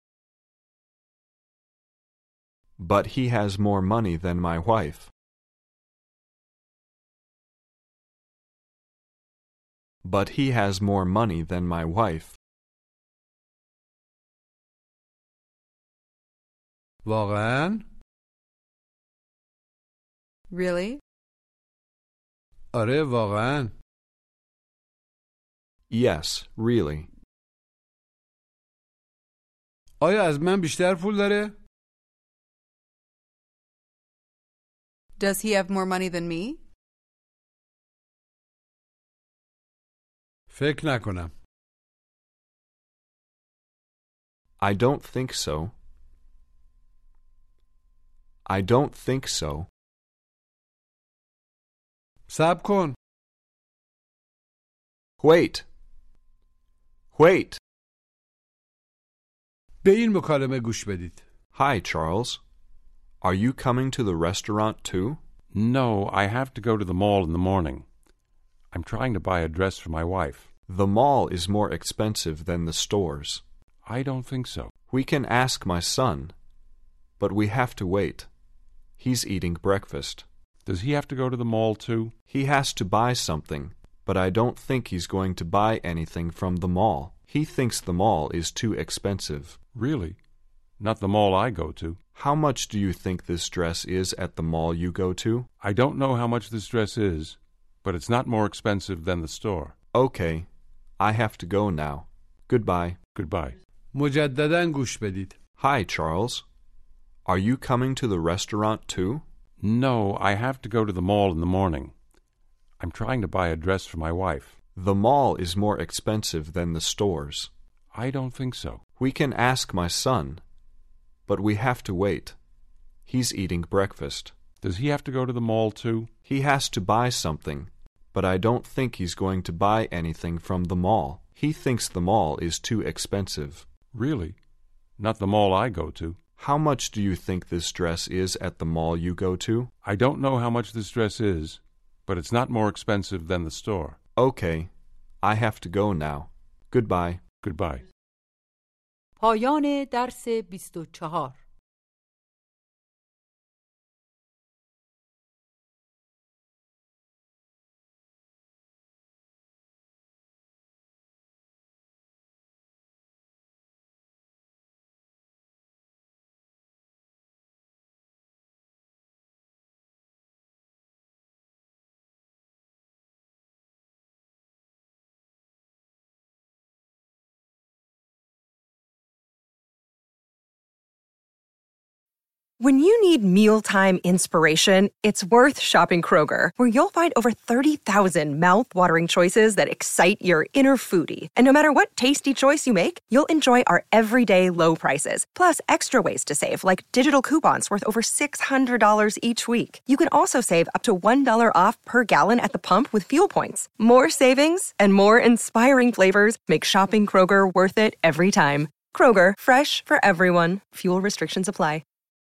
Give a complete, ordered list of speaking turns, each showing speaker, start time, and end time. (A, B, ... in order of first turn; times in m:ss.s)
0:02.8-0:05.1 A
0:10.0-0:12.4 A
0:17.0-0:17.8 B
0:20.5-0:21.0 C
0:22.7-0:23.7 B
0:25.9-0:27.1 A
0:30.0-0:31.6 B
0:35.2-0:36.6 C
0:40.5-0:41.3 B
0:44.6-0:45.7 A
0:48.5-0:49.7 A
0:52.3-0:53.0 B
0:55.2-0:55.7 A
0:57.1-0:57.6 A
0:59.8-1:01.2 B
1:01.5-1:02.4 A
1:03.2-1:05.2 A
1:05.5-1:07.8 D
1:08.7-1:10.5 D
1:10.7-1:13.4 A
1:13.9-1:14.7 D
1:14.9-1:16.3 A
1:17.2-1:18.3 A
1:19.0-1:20.3 A
1:20.7-1:22.2 D
1:22.3-1:29.6 A
1:29.8-1:30.2 D
1:30.8-1:32.0 D
1:32.2-1:35.5 A
1:35.6-1:39.8 D
1:39.9-1:40.5 A
1:41.0-1:43.0 A
1:43.2-1:43.6 D
1:43.9-1:45.4 B
1:45.6-1:46.4 A
1:47.3-1:49.2 A
1:49.6-1:51.9 D
1:52.8-1:54.6 D
1:54.8-1:57.5 A
1:57.9-1:58.8 D
1:59.0-2:00.4 A
2:01.3-2:02.4 A
2:03.1-2:04.3 A
2:04.6-2:06.1 D
2:06.3-2:13.7 A
2:13.9-2:14.4 D
2:15.0-2:16.2 D
2:16.4-2:19.7 A
2:19.8-2:24.0 D
2:24.2-2:24.7 A
2:25.2-2:27.2 A
2:27.4-2:27.8 D
2:29.2-2:31.4 E
3:02.6-3:31.8 F